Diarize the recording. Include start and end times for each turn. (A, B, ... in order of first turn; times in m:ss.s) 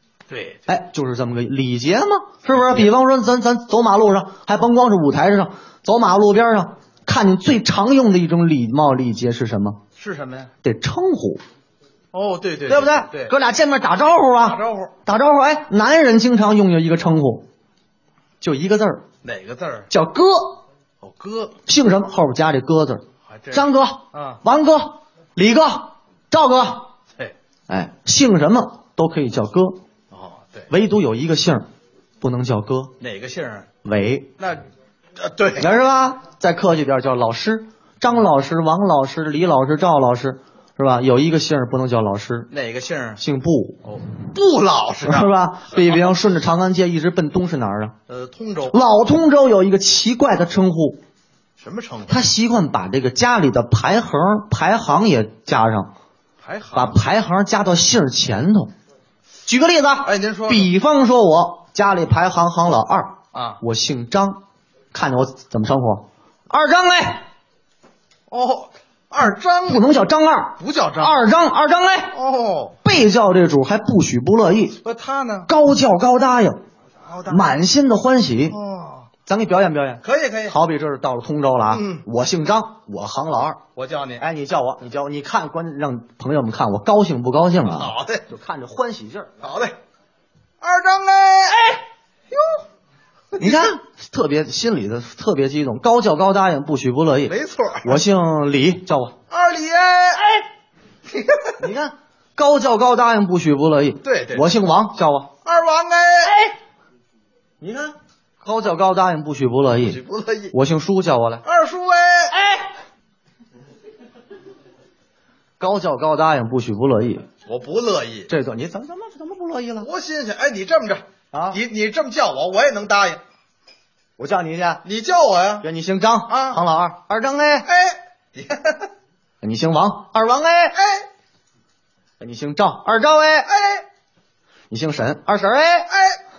0:00.3-0:00.6 A
0:00.7-0:09.8 B
0:02.5-0:02.9 A
0:10.0-0:10.5 A
0:10.6-0:11.4 B
0:12.1-0:13.4 A
0:12.7-0:17.5 B
0:14.4-0:14.9 A
0:18.4-0:19.0 B
0:19.2-0:19.9 A
0:19.9-0:20.6 B
0:21.0-0:21.6 A
0:21.7-0:26.9 B
0:23.3-0:24.4 A
0:27.7-0:29.8 B
0:30.1-0:30.7 A
0:30.7-0:31.7 B
0:32.2-0:33.0 B
0:33.0-0:33.7 A
0:33.8-0:34.4 B
0:34.4-0:34.6 A
0:35.2-0:35.8 A
0:35.6-0:42.5 B
0:42.5-0:43.2 A
0:43.2-0:43.8 B
0:43.8-0:46.0 A
0:45.0-0:48.0 B
0:48.1-0:48.8 A
0:48.7-0:51.0 B
0:51.6-0:52.2 A
0:52.1-0:55.9 B
0:56.4-0:57.0 A
0:56.7-0:58.7 B
0:59.4-1:07.3 B
1:00.0-1:00.7 A
1:03.3-1:03.6 A
1:08.3-1:09.9 A
1:09.7-1:12.2 B
1:10.6-1:11.3 A
1:12.1-1:12.8 A
1:12.8-1:14.8 B
1:14.8-1:15.5 A
1:15.5-1:16.6 B
1:17.0-1:17.6 A
1:17.3-1:18.6 B
1:18.5-1:19.1 A
1:19.2-1:23.6 B
1:20.0-1:20.6 A
1:21.7-1:22.0 A
1:23.8-1:24.2 A
1:24.2-1:29.3 B
1:27.7-1:28.3 A
1:29.4-1:29.8 A
1:30.6-1:31.8 A
1:33.4-1:33.7 A
1:33.4-1:39.2 B
1:37.3-1:38.0 A
1:39.3-1:40.2 A
1:41.2-1:41.5 A
1:41.6-1:45.3 B
1:44.0-1:44.5 A
1:45.4-1:46.4 A
1:46.3-1:46.5 B
1:47.6-1:50.0 B
1:49.8-1:50.5 A
1:50.5-1:51.4 B
1:51.4-1:52.4 A
1:52.3-1:52.7 B
1:55.6-1:57.3 B
1:57.4-1:58.3 A
1:58.3-1:59.9 B
1:59.8-2:03.2 A
2:01.3-2:01.6 B
2:04.2-2:04.8 B
2:04.8-2:05.7 A
2:05.6-2:07.7 B
2:06.3-2:06.6 A
2:07.6-2:08.8 A
2:09.4-2:10.8 B
2:10.7-2:11.1 A
2:12.2-2:13.5 B
2:13.5-2:13.8 A
2:14.7-2:15.9 B
2:15.9-2:16.2 A